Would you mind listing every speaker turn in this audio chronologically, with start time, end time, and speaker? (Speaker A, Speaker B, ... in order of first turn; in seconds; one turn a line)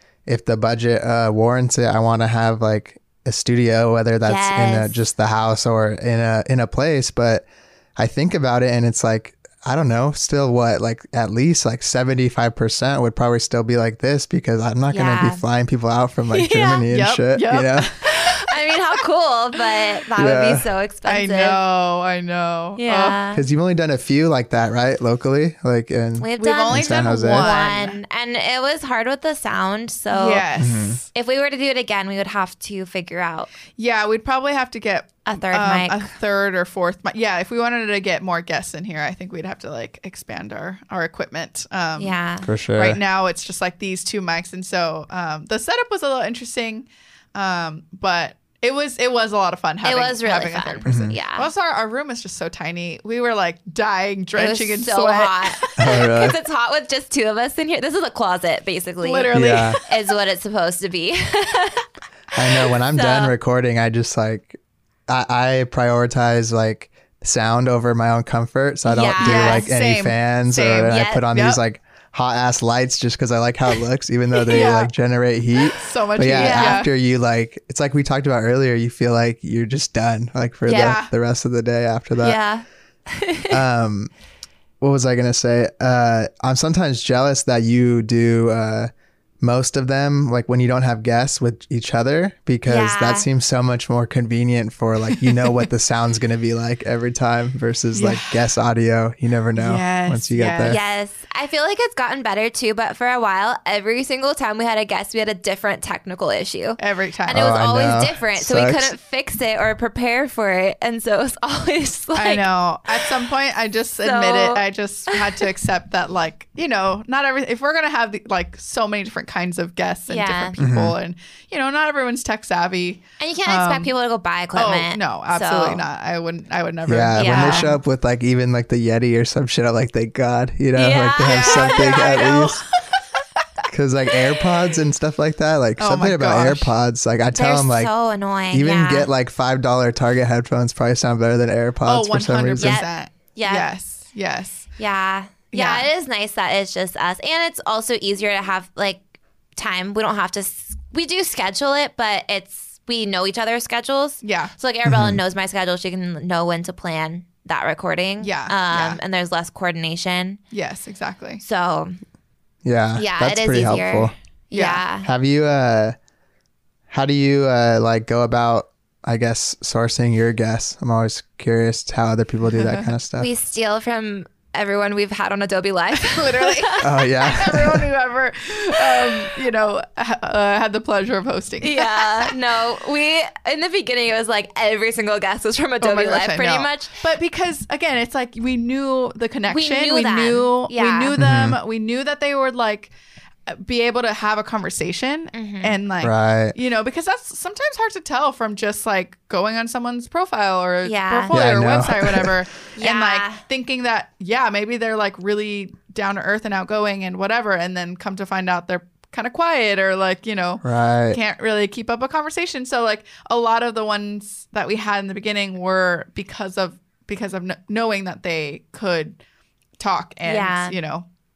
Speaker A: 0.2-17.9
Speaker B: 4.2-5.0
Speaker B: 14.9-15.4
Speaker B: 16.3-16.9
Speaker C: 16.9-18.5
Speaker B: 18.0-21.6
Speaker A: 20.2-20.7
Speaker C: 21.1-23.2
Speaker B: 22.8-23.4
Speaker A: 23.3-27.5
Speaker B: 26.2-30.4
Speaker C: 26.4-28.0
Speaker C: 30.1-31.0
Speaker A: 30.6-31.0
Speaker B: 31.1-33.5
Speaker C: 33.8-42.2
Speaker B: 35.2-36.1
Speaker B: 42.0-42.5
Speaker A: 42.4-43.0
Speaker C: 42.8-56.1
Speaker B: 49.8-51.5
Speaker A: 50.9-51.2
Speaker B: 54.4-59.3
Speaker A: 55.8-56.4
Speaker C: 59.0-60.0
Speaker A: 59.3-59.8
Speaker B: 59.9-61.9
Speaker A: 62.4-82.4
Speaker B: 62.5-63.3
Speaker B: 68.8-69.7
Speaker C: 69.2-71.6
Speaker B: 70.8-71.2
Speaker C: 74.5-74.9
Speaker C: 75.7-76.9
Speaker B: 76.3-76.8
Speaker B: 80.7-81.0
Speaker C: 80.7-81.1
Speaker B: 82.2-83.6
Speaker A: 83.5-84.1
Speaker A: 84.8-88.9
Speaker A: 89.4-100.8
Speaker B: 92.7-93.3
Speaker C: 97.9-98.4
Speaker C: 99.5-100.8
Speaker B: 100.5-113.1
Speaker C: 106.8-107.4
Speaker A: 107.3-108.9
Speaker C: 112.2-123.9
Speaker B: 114.0-115.5
Speaker B: 120.1-120.6
Speaker A: 120.6-121.0
Speaker B: 123.2-125.8
Speaker C: 124.5-127.7
Speaker A: 126.9-132.6
Speaker B: 127.2-127.8
Speaker B: 130.7-132.5
Speaker C: 131.2-133.0
Speaker A: 133.7-137.9
Speaker C: 135.8-136.7
Speaker B: 137.4-139.1
Speaker A: 138.5-142.8
Speaker C: 141.8-144.7
Speaker B: 142.6-143.7
Speaker B: 144.8-149.0
Speaker C: 145.5-145.9
Speaker B: 149.6-160.4
Speaker C: 154.2-154.5
Speaker A: 154.9-155.2
Speaker C: 158.2-159.0
Speaker C: 160.5-161.4
Speaker B: 161.4-162.0
Speaker A: 162.6-164.1
Speaker B: 162.9-165.1
Speaker C: 164.5-164.8
Speaker A: 165.0-165.9
Speaker A: 166.9-173.3
Speaker C: 172.5-172.9
Speaker B: 173.2-176.8
Speaker C: 176.0-182.3
Speaker A: 176.8-177.8
Speaker B: 178.9-179.2
Speaker B: 181.6-187.0
Speaker C: 185.8-192.9
Speaker B: 189.5-191.1
Speaker A: 191.2-191.6
Speaker C: 193.5-219.2
Speaker B: 195.3-195.8
Speaker A: 196.0-196.6
Speaker B: 200.8-201.3
Speaker A: 201.3-202.3
Speaker B: 202.8-203.4
Speaker A: 210.6-211.2
Speaker C: 219.8-221.1
Speaker B: 220.2-220.8